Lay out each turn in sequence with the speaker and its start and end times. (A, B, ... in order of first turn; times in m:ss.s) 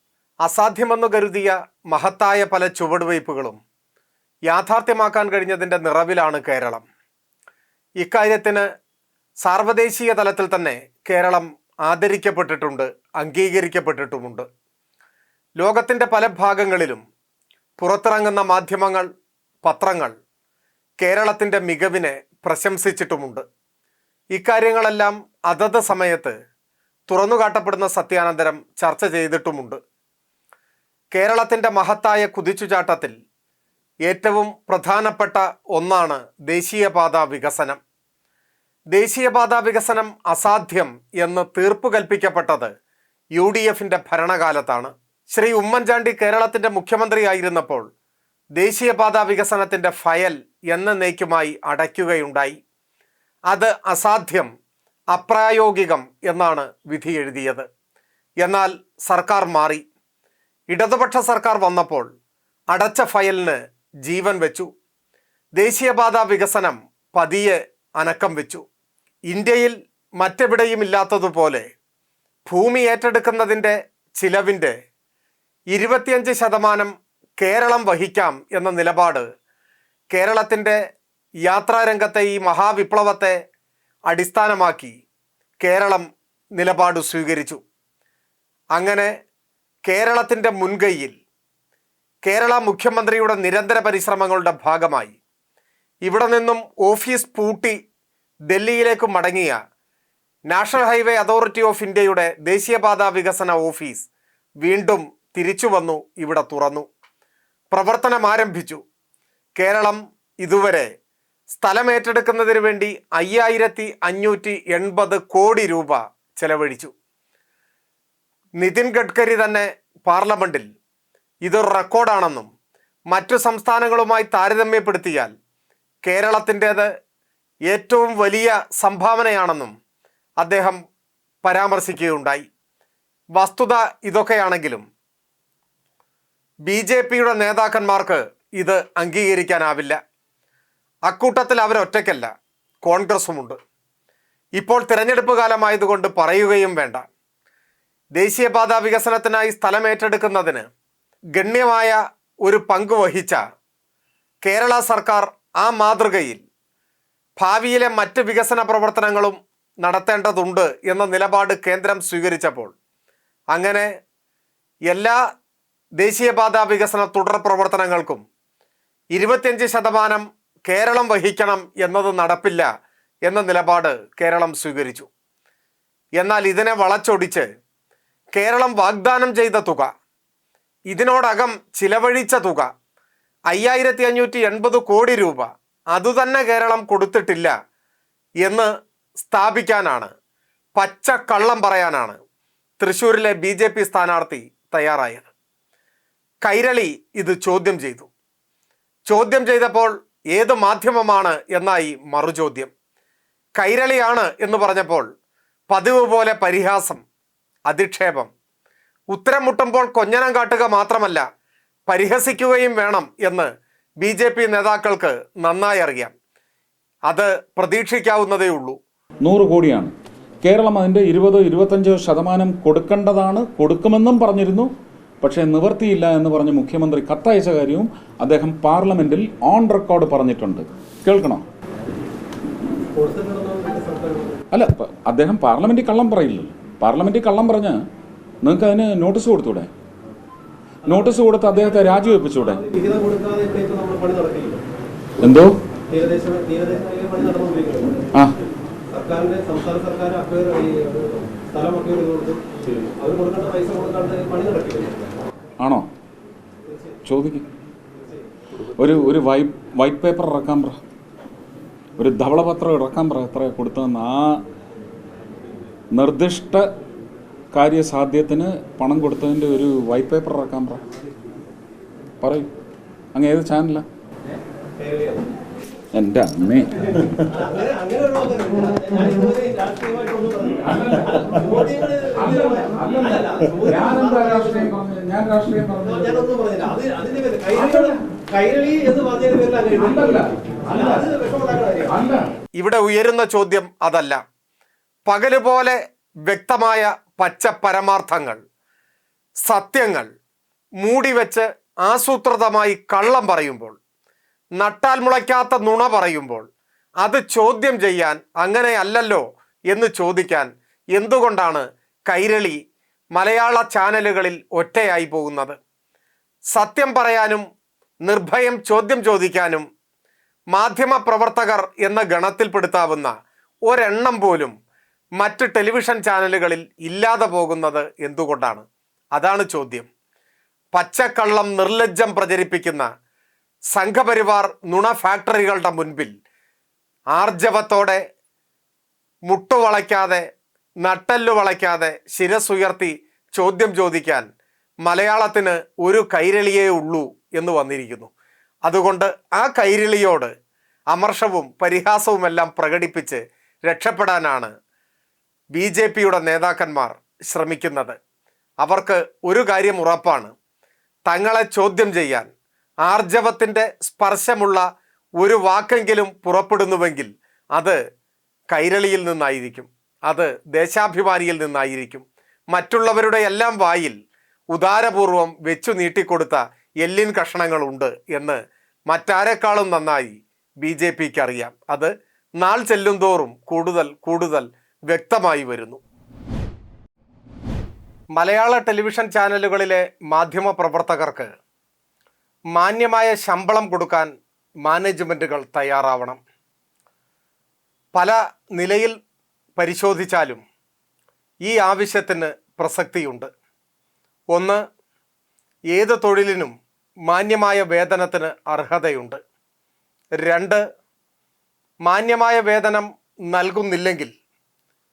0:00.4-0:03.6 A
0:04.5-0:06.8 A
0:08.0-0:08.7 A
0:09.4-0:14.5 A
0:15.6-0:17.0 A
0:17.8-0:19.1 A
0:19.6-0:20.1 A
0:21.0-0:23.4 A
0:24.3-0:26.3 A
0:27.1-0:29.8 A
0:31.1-0:33.1 A
0:34.1-0:37.8 A
0:38.9-0:42.7 A
0:43.4-0:47.9 A
0:48.6-0:52.6 A
0:53.5-0:54.5 A
0:55.1-0:57.7 A
0:58.4-0:59.8 A
1:00.7-1:02.1 A
1:02.7-1:04.7 A
1:05.6-1:08.6 A
1:09.3-1:11.6 A
1:12.5-1:14.7 A
1:15.7-1:19.2 A
1:20.1-1:20.8 A
1:21.4-1:23.4 A
1:24.1-1:24.9 A
1:25.6-1:26.1 A
1:26.6-1:27.6 A
1:28.8-1:29.1 A
1:29.9-1:31.1 A
1:32.3-1:35.2 A
1:36.1-1:37.8 A
1:38.5-1:39.6 A
1:40.5-1:44.1 A
1:44.6-1:46.9 A
1:47.7-1:48.8 A
1:49.6-1:50.9 A
1:51.5-1:56.9 A
1:58.6-2:00.7 A
2:01.4-2:02.5 A
2:03.1-2:05.3 A
2:06.0-2:06.9 A
2:07.7-2:09.7 A
2:10.4-2:10.8 A
2:11.4-2:12.5 A
2:13.4-2:14.8 A
2:16.7-2:20.0 A
2:21.1-2:22.3 A
2:22.8-2:23.6 A
2:24.6-2:27.0 A
2:28.2-2:30.6 A
2:31.4-2:33.4 A
2:34.4-2:36.4 A
2:37.4-2:42.7 A
2:43.5-2:43.9 A
2:44.9-2:45.2 A
2:46.0-2:48.2 A
2:49.1-2:52.7 A
2:53.3-2:55.1 A
2:56.2-2:57.5 A
2:58.4-2:59.9 A
3:00.9-3:02.7 A
3:03.5-3:07.5 A
3:09.3-3:10.1 A
3:10.8-3:12.2 A
3:12.8-3:15.3 A
3:16.4-3:18.1 A
3:19.1-3:22.7 A
3:23.6-3:25.1 A
3:25.7-3:27.0 A
3:27.7-3:28.3 A
3:29.1-3:31.2 A
3:31.9-3:33.5 A
3:34.0-3:36.1 A
3:37.1-3:38.8 A
3:39.2-3:51.4 B
3:52.9-3:54.4 C
3:54.5-3:57.8 B
3:58.4-3:59.7 B
4:00.9-4:02.6 B
4:00.9-4:04.6 C
4:05.2-4:05.6 B
4:05.9-4:08.1 C
4:08.9-4:12.5 C
4:13.0-4:15.1 C
4:15.6-4:15.9 B
4:17.1-4:17.5 B
4:18.8-4:20.8 B
4:22.0-4:24.4 B
4:25.9-4:26.7 B
4:27.5-4:30.8 B
4:32.2-4:32.5 B
4:33.1-4:33.9 B
4:34.8-4:35.3 C
4:35.9-4:37.1 B
4:37.3-4:44.7 C
4:40.6-4:46.3 B
4:45.8-4:52.0 C
4:47.5-4:48.0 B
4:49.8-4:51.1 B
4:51.9-4:52.3 B
4:52.6-4:54.2 A
4:55.1-4:58.4 A
4:59.5-5:00.1 A
5:00.8-5:03.8 A
5:04.6-5:06.5 A
5:07.0-5:12.6 A
5:13.2-5:15.6 A
5:16.5-5:17.4 A
5:18.1-5:19.6 A
5:20.5-5:23.1 A
5:23.7-5:24.5 A
5:25.2-5:28.6 A
5:29.2-5:29.9 A
5:30.7-5:32.9 A
5:33.7-5:36.1 A
5:37.2-5:38.0 A
5:39.3-5:40.2 A
5:40.8-5:44.3 A
5:44.8-5:48.1 A
5:48.7-5:50.3 A
5:50.9-5:54.5 A
5:55.6-5:58.0 A
5:58.6-6:00.3 A
6:01.1-6:02.3 A
6:02.8-6:04.6 A
6:05.2-6:07.8 A
6:08.5-6:14.0 A
6:14.5-6:18.4 A
6:18.9-6:25.8 A
6:28.2-6:31.3 A
6:32.6-6:34.1 A
6:34.6-6:36.2 A
6:38.0-6:39.0 A
6:39.6-6:40.4 A
6:41.5-6:43.3 A
6:44.3-6:44.6 A
6:45.7-6:46.5 A
6:47.1-6:49.2 A
6:50.2-6:50.6 A
6:51.9-6:54.1 A